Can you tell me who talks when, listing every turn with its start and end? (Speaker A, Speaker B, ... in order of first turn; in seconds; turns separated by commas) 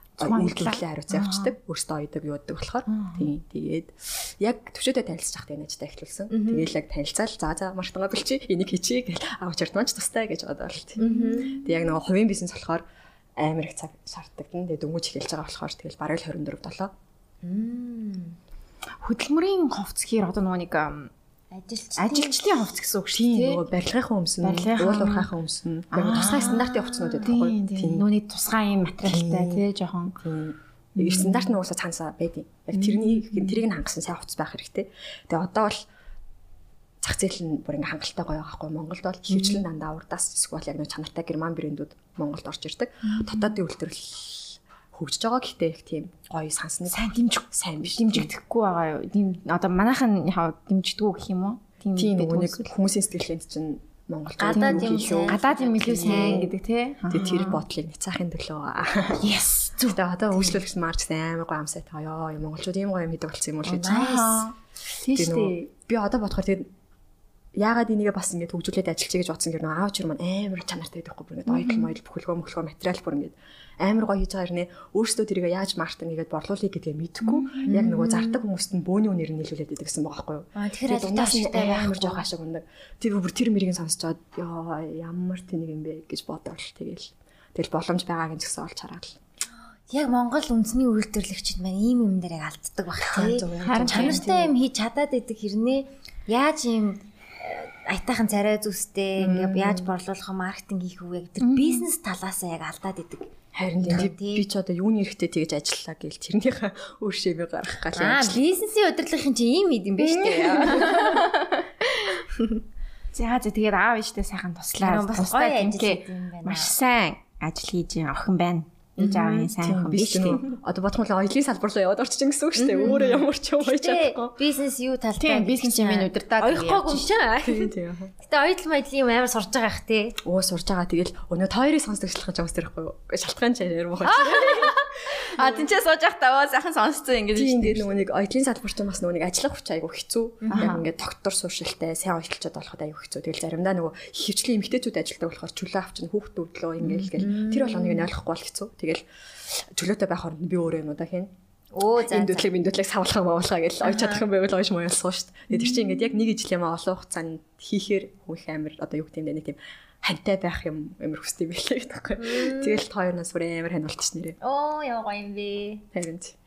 Speaker A: 0.2-12.8, Speaker B: 0.2-1.5, Speaker B: 2.9-3.3, Speaker C: 6.3-6.7, Speaker C: 11.0-11.6, Speaker A: 13.4-16.9, Speaker C: 17.4-18.4, Speaker B: 19.0-21.1, Speaker C: 21.5-22.4, Speaker B: 22.0-23.6, Speaker A: 22.9-28.1, Speaker B: 24.4-25.3, Speaker B: 25.9-30.2, Speaker C: 26.1-26.6, Speaker A: 29.0-29.6, Speaker A: 30.2-35.9, Speaker B: 31.0-31.5, Speaker B: 32.8-33.6, Speaker A: 37.0-48.3, Speaker B: 39.3-39.6, Speaker B: 43.0-43.5, Speaker B: 46.9-52.7, Speaker A: 52.0-56.5, Speaker C: 54.4-56.5, Speaker B: 54.5-57.6, Speaker A: 57.1-59.2, Speaker B: 59.1-60.0, Speaker A: 59.9-64.0, Speaker C: 63.6-64.5, Speaker B: 63.9-65.6, Speaker A: 65.1-66.7, Speaker A: 67.5-89.2, Speaker B: 71.5-71.9, Speaker B: 77.2-77.9, Speaker C: 77.7-78.4, Speaker C: 80.5-82.2, Speaker C: 89.9-103.3, Speaker A: 93.0-94.5, Speaker B: 93.6-94.2, Speaker A: 99.2-99.9, Speaker B: 101.4-101.8, Speaker A: 103.5-108.4, Speaker C: 103.8-104.5, Speaker C: 108.0-111.3, Speaker B: 110.0-112.2, Speaker B: 113.1-120.5, Speaker C: 114.8-116.7, Speaker C: 119.0-119.5, Speaker A: 119.6-124.3, Speaker C: 122.6-130.2, Speaker B: 122.8-123.2, Speaker B: 125.2-127.1, Speaker A: 127.4-128.1, Speaker A: 130.2-135.7, Speaker B: 134.1-137.9, Speaker A: 137.3-151.3, Speaker C: 140.4-140.8, Speaker B: 140.5-140.8, Speaker C: 147.1-148.1, Speaker C: 151.7-152.5, Speaker A: 152.0-164.4, Speaker C: 153.8-154.2, Speaker C: 162.2-162.8, Speaker C: 164.4-165.8, Speaker A: 165.9-166.3